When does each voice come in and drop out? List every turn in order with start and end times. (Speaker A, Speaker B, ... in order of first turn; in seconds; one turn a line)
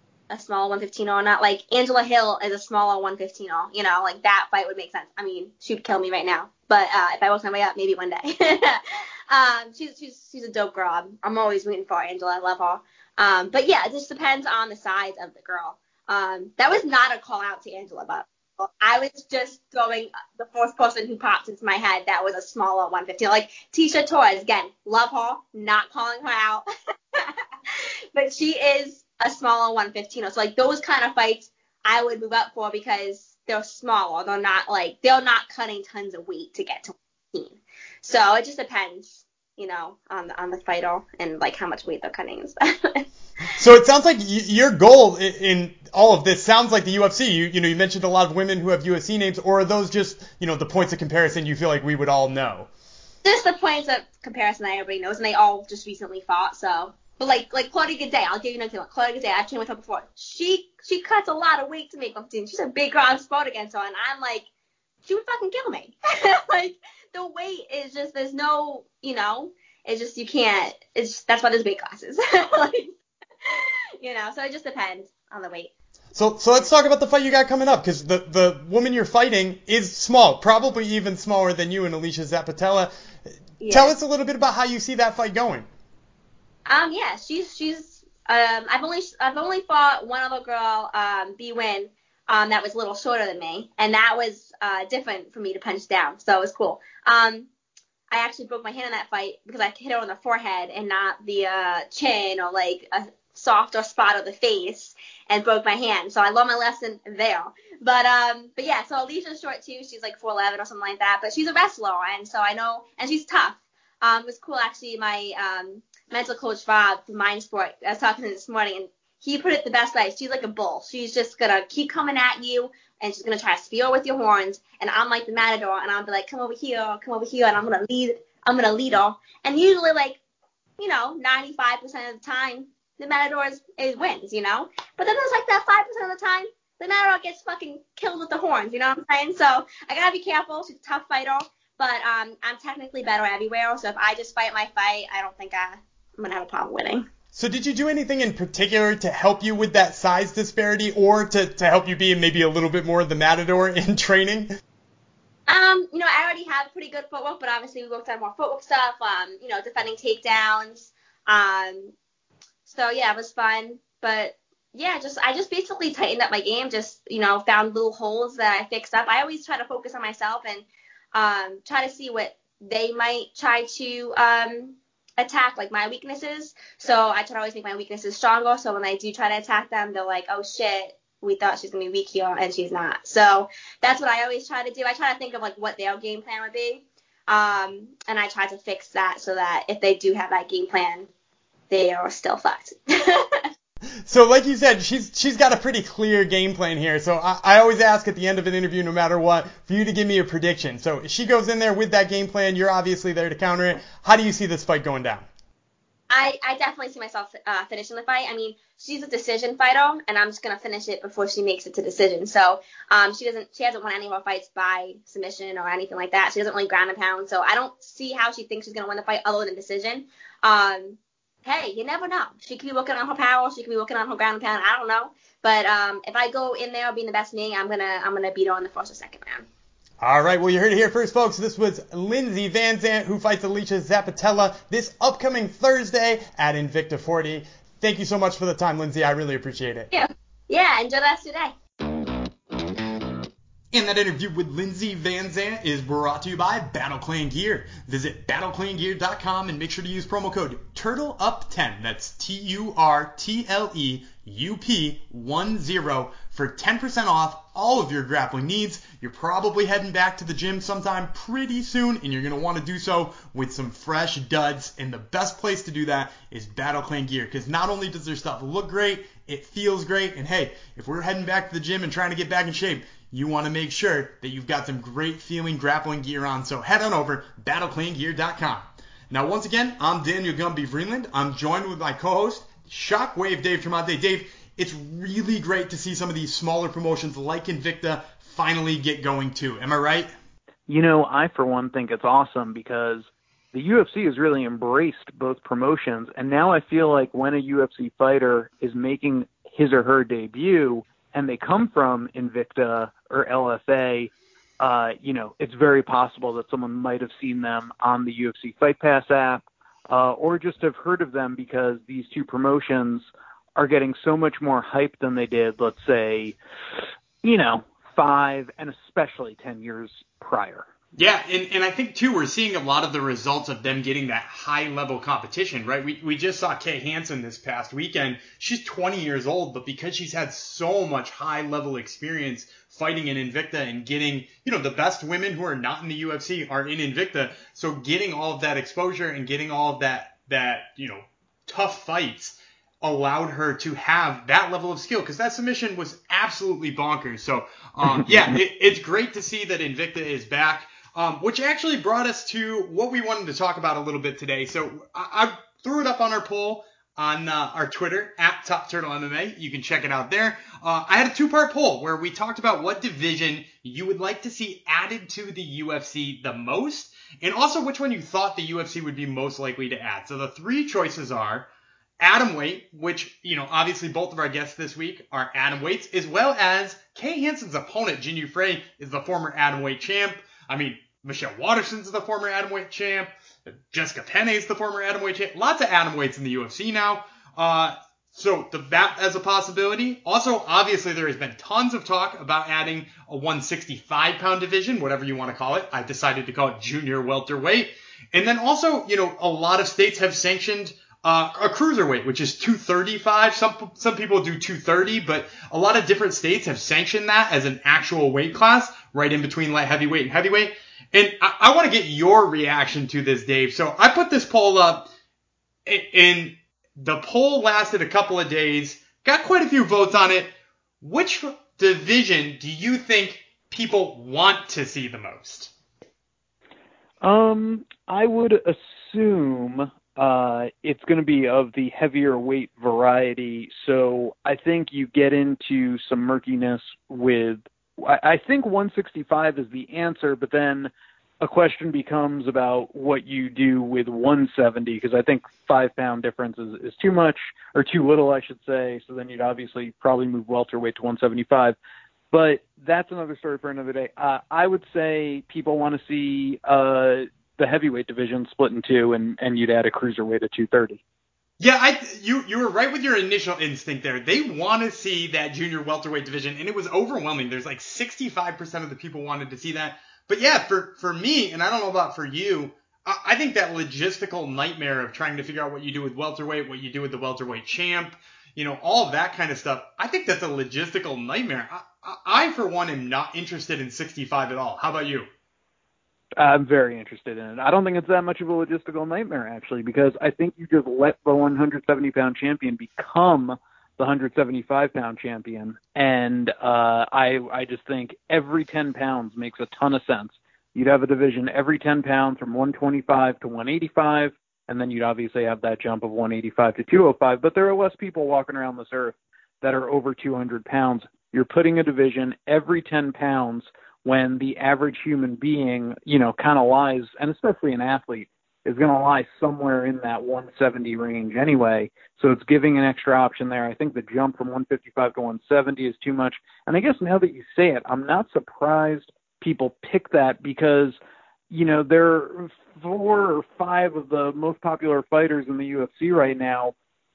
Speaker A: 0.3-43.0
Speaker B: 43.5-52.7
Speaker A: 53.2-64.5
Speaker A: 65.0-72.9
Speaker A: 73.4-75.7
Speaker B: 76.1-82.9
Speaker A: 83.6-83.9
Speaker B: 83.7-85.7
Speaker A: 86.7-97.5
Speaker A: 98.1-130.2
Speaker A: 130.8-147.1
Speaker B: 147.3-154.5
Speaker A: 155.5-161.9
Speaker A: 162.7-191.1
Speaker A: 191.7-193.5
Speaker B: 194.1-205.3
Speaker A: 206.1-229.5
Speaker B: 230.0-239.9
Speaker A: 239.9-241.5
Speaker B: 243.7-290.1
Speaker C: 290.7-316.4
Speaker C: 317.2-320.6
Speaker B: 320.9-371.5
Speaker B: 372.0-414.9
Speaker B: 415.6-425.5
Speaker C: 427.0-440.7
Speaker C: 441.2-451.6
Speaker C: 452.1-460.8
Speaker B: 461.4-485.1
Speaker C: 486.2-530.8
Speaker C: 531.3-536.5